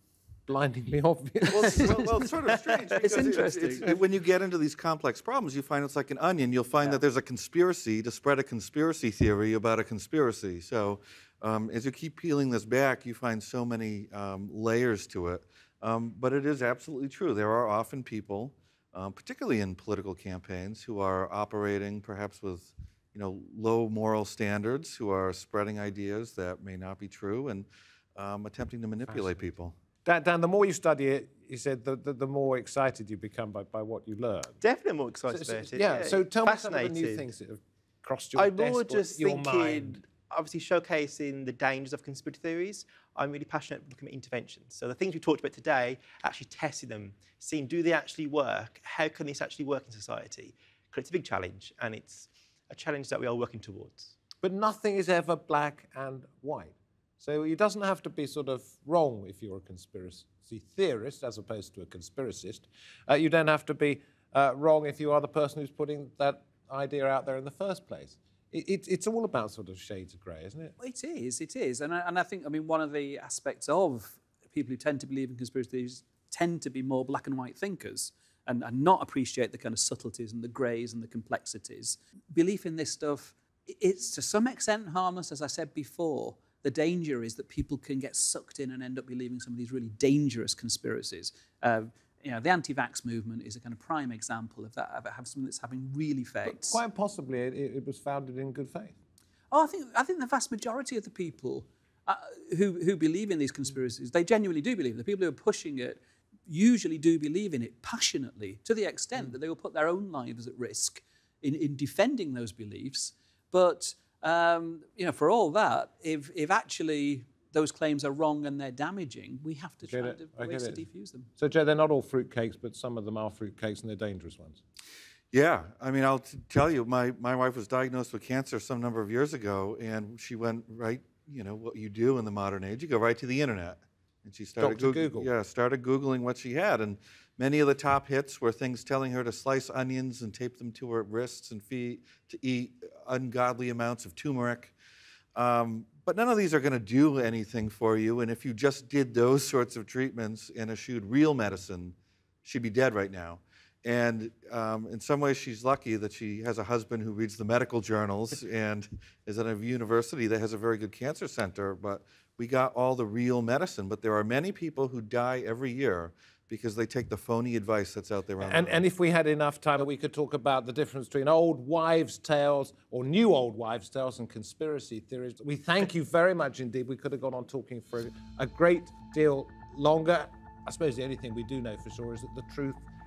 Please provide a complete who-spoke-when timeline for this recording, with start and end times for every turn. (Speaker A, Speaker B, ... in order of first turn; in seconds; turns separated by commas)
Speaker A: 0.5-2.1, Speaker B: 1.5-29.7, Speaker C: 3.0-3.9, Speaker A: 29.1-29.5, Speaker A: 30.0-34.6, Speaker D: 34.6-37.3, Speaker A: 35.3-40.0, Speaker D: 38.3-54.1, Speaker A: 54.4-70.8, Speaker C: 70.8-96.8, Speaker A: 96.4-98.9, Speaker C: 99.5-121.3, Speaker A: 119.8-120.8, Speaker A: 121.4-124.6, Speaker B: 125.3-144.7, Speaker A: 134.6-135.3, Speaker B: 145.3-168.8, Speaker A: 168.4-182.8